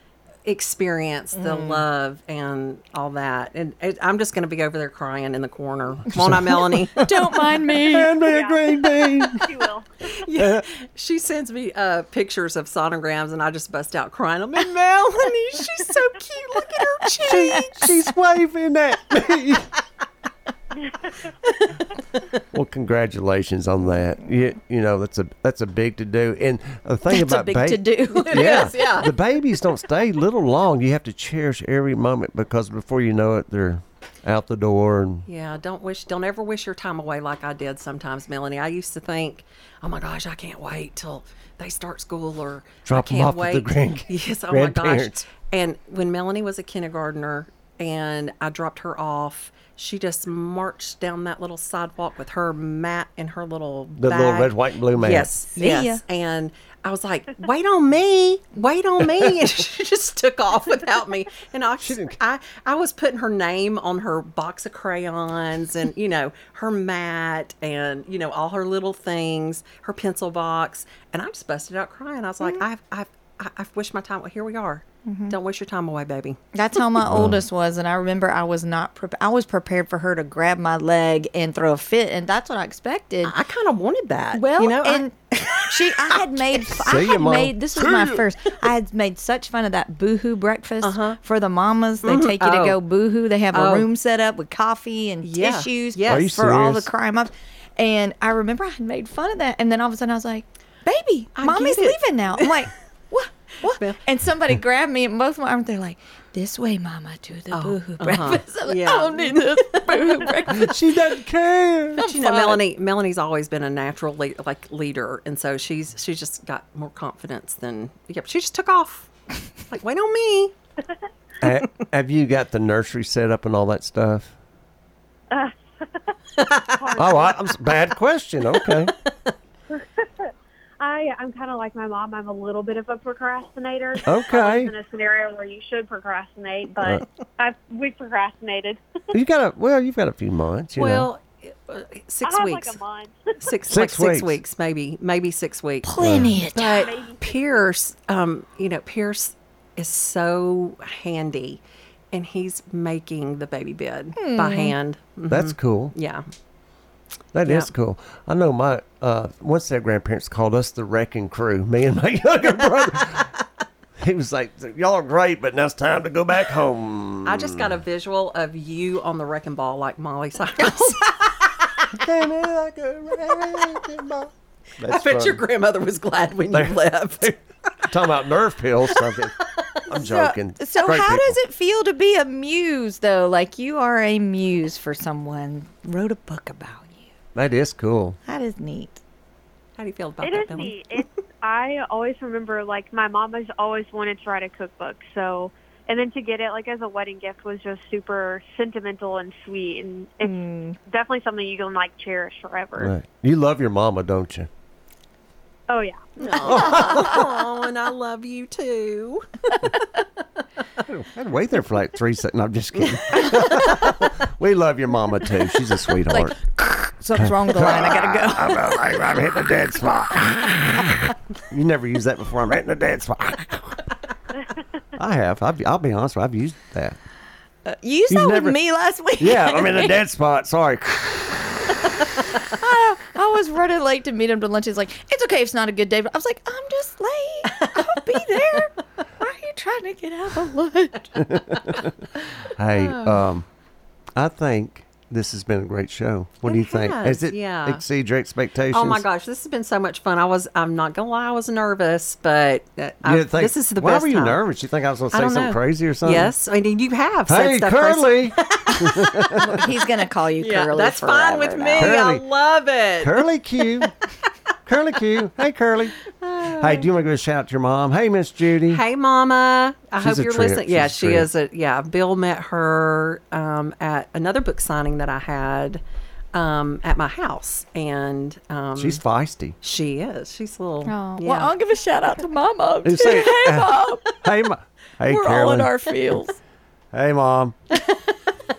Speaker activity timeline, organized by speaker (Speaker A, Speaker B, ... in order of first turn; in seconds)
Speaker A: 0.5-7.0, 10.2-17.9, 21.5-21.9, 28.1-29.1, 35.3-76.4, 83.2-85.0, 85.9-86.2, 90.8-91.2, 92.0-92.8, 93.5-93.9, 95.2-96.5, 101.3-102.6, 103.6-104.0, 107.5-110.5, 112.0-119.1, 119.7-120.5, 126.4-127.2, 140.8-142.8, 143.4-156.2, 157.4-157.7, 167.2-172.0, 174.8-177.3, 178.9-180.3, 189.8-190.8, 206.2-209.9, 213.3-213.6, 237.5-238.0, 242.7-243.2, 246.4-247.8, 248.7-254.4, 255.1-259.6, 260.4-263.2, 266.1-266.9, 268.7-275.8, 276.3-279.0, 279.6-281.5
Speaker B: 1.3-1.8, 7.0-8.2, 27.0-28.9, 55.5-56.0, 75.0-75.3, 76.5-83.3, 84.3-111.0, 112.0-112.6, 145.8-146.9, 154.2-154.8, 179.9-187.1, 188.2-189.0, 200.2-200.8, 216.2-219.0, 227.6-230.0, 232.4-241.3, 259.3-262.0, 280.8-284.1, 285.0-286.4
Speaker C: 6.1-9.7, 17.2-19.7, 22.5-35.3, 42.9-45.2, 54.0-55.3, 61.8-62.2, 77.0-77.4, 86.7-88.2, 96.0-96.9, 110.5-112.0, 121.4-124.3, 127.0-128.9, 134.1-134.7, 139.1-141.1, 143.7-144.4, 146.0-146.3, 155.3-155.9, 157.3-163.3, 164.0-167.7, 171.9-175.4, 176.5-181.4, 187.3-188.2, 202.8-204.5, 206.4-207.3, 210.8-216.4, 217.2-223.9, 224.9-227.0, 228.1-228.6, 229.2-231.8, 241.2-241.9, 242.5-243.4, 244.2-249.0, 253.0-256.3, 257.3-259.4, 261.8-262.2, 263.0-263.9, 264.6-266.0, 266.5-268.8, 270.0-271.3, 278.8-279.6, 282.8-285.7, 286.9-287.6
Speaker D: 8.2-10.1, 125.3-125.5, 126.7-127.4, 129.7-139.1, 142.2-143.3, 146.7-147.4, 190.2-202.9, 205.7-206.6